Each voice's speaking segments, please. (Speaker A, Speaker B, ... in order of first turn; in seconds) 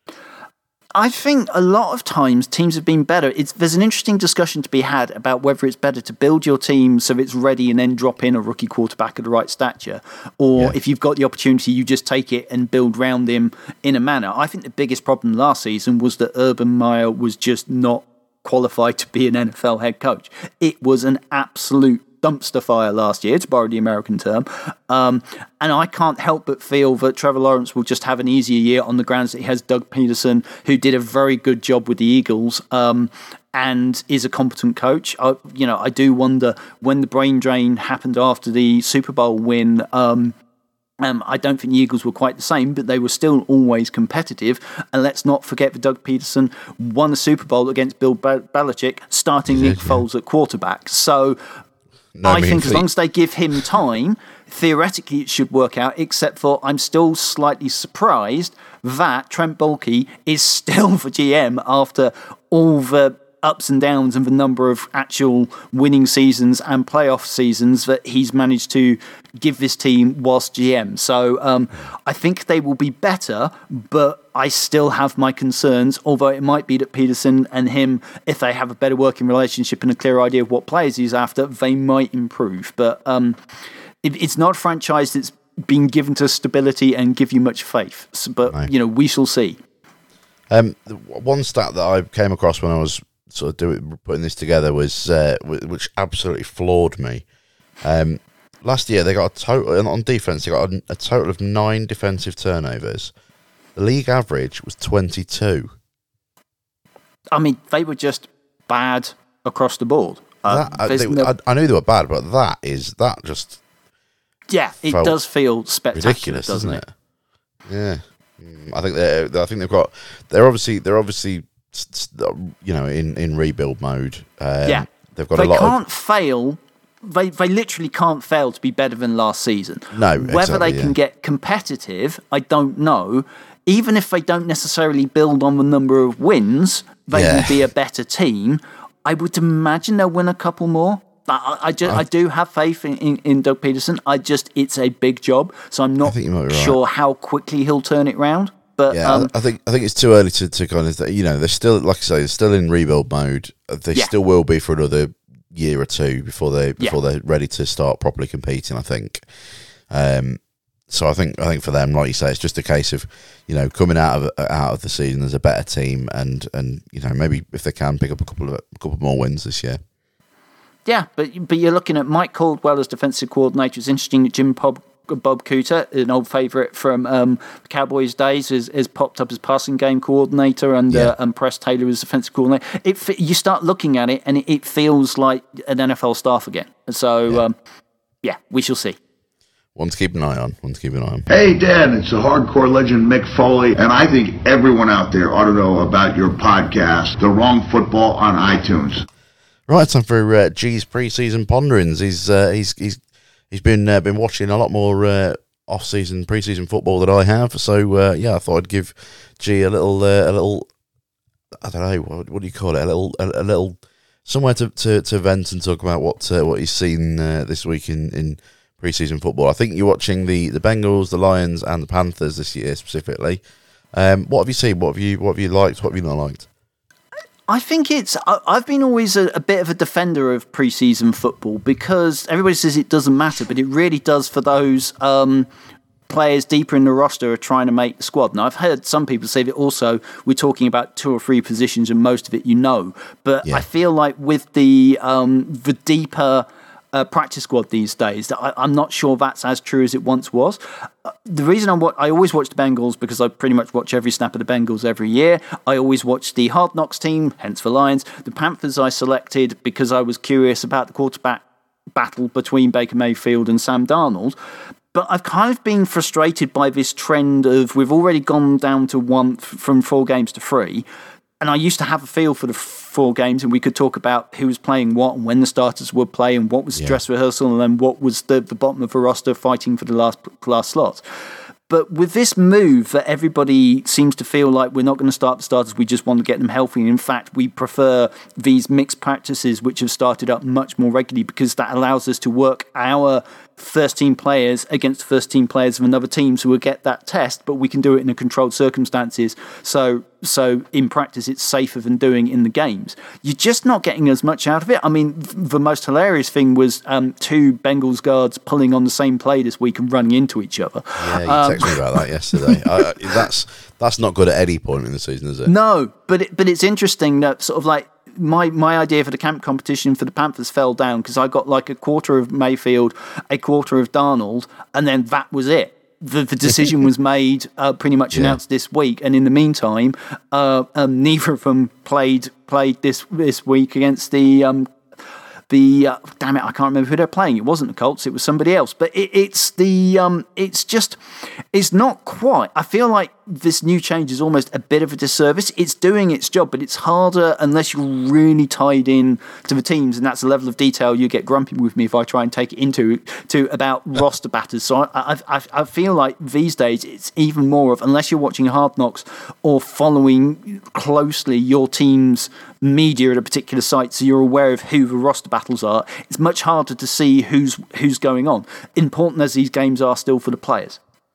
Speaker A: 0.9-40.3, 41.0-51.4, 52.2-83.4, 84.0-89.6, 107.3-111.3, 114.5-116.8, 124.6-149.3, 170.8-187.6, 188.2-189.0, 227.5-235.5, 236.1-264.4, 264.9-270.9, 271.4-281.0, 281.7-312.6, 315.4-334.7, 335.5-341.0, 341.5-370.8
Speaker B: 49.5-50.0, 52.1-52.9, 90.5-97.2, 97.8-103.1, 103.8-105.7, 110.5-113.6, 114.9-115.2, 115.9-116.9, 117.7-125.8, 129.9-130.9, 137.1-137.6, 146.0-146.8, 148.9-159.2, 159.9-169.8, 189.7-191.3, 199.7-203.0, 203.5-210.7, 211.6-223.4, 223.9-226.5, 310.9-315.5, 328.1-328.4
Speaker C: 191.3-199.1